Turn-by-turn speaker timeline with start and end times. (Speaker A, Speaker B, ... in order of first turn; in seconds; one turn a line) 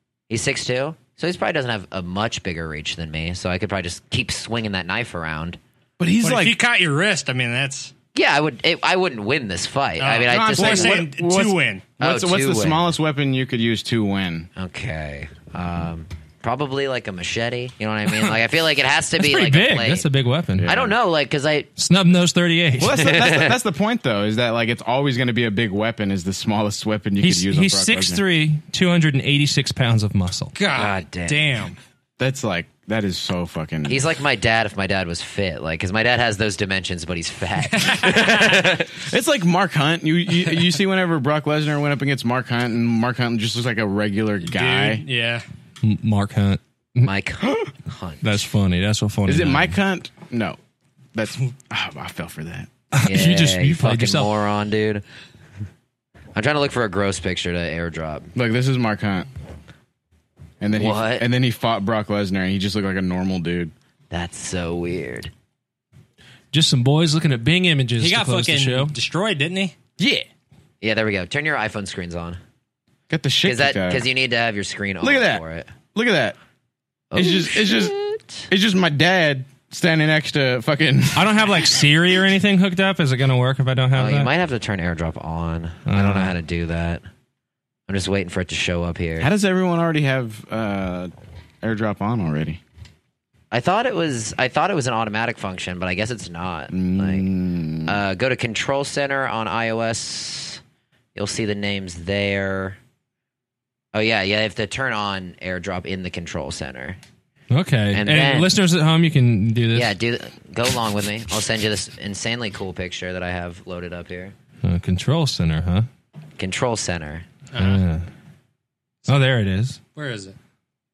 Speaker A: 0.3-5.6
Speaker B: 6.0-6.6
Speaker C: 6.2-7.9
Speaker A: 8.2-11.1
Speaker C: 10.0-11.9
Speaker B: 10.2-14.5
Speaker A: 12.0-12.8
Speaker A: 14.6-20.1
Speaker D: 19.2-20.7
Speaker B: 20.6-20.9
Speaker A: 20.6-21.7
Speaker D: 21.8-23.1
Speaker B: 22.8-28.2
Speaker A: 22.9-23.6
Speaker D: 27.2-30.5
Speaker C: 30.6-31.8
Speaker A: 30.7-31.4
Speaker B: 32.2-34.0
Speaker A: 33.9-38.9
Speaker C: 37.8-38.2
Speaker B: 39.0-45.0
Speaker C: 44.5-45.4
Speaker D: 45.8-47.1
Speaker A: 47.0-48.4
Speaker D: 48.2-49.8
Speaker B: 49.3-50.6
Speaker B: 51.1-52.7
Speaker D: 52.9-54.3
Speaker A: 53.0-55.0
Speaker A: 56.4-58.3
Speaker B: 58.4-59.3
Speaker B: 60.6-63.7
Speaker A: 60.7-61.3
Speaker A: 64.1-65.3
Speaker D: 66.5-68.9
Speaker C: 68.0-69.8
Speaker B: 70.0-70.3
Speaker A: 70.8-72.4
Speaker B: 73.1-74.0
Speaker A: 73.4-75.7
Speaker B: 75.0-75.4
Speaker B: 75.9-76.4
Speaker A: 77.1-78.5
Speaker B: 77.2-78.0
Speaker B: 78.5-81.3
Speaker D: 81.1-84.3
Speaker A: 83.9-87.0
Speaker D: 85.9-86.3
Speaker A: 87.9-89.3
Speaker B: 89.2-92.6
Speaker A: 93.5-97.3
Speaker B: 96.7-98.0
Speaker A: 97.8-100.6
Speaker A: 101.2-102.8
Speaker A: 103.9-107.0
Speaker D: 107.5-110.0
Speaker A: 107.9-108.5
Speaker A: 109.7-114.3
Speaker D: 114.6-115.9
Speaker A: 116.4-117.3
Speaker C: 117.5-117.8
Speaker D: 117.6-118.1
Speaker D: 119.1-119.8
Speaker C: 120.0-120.4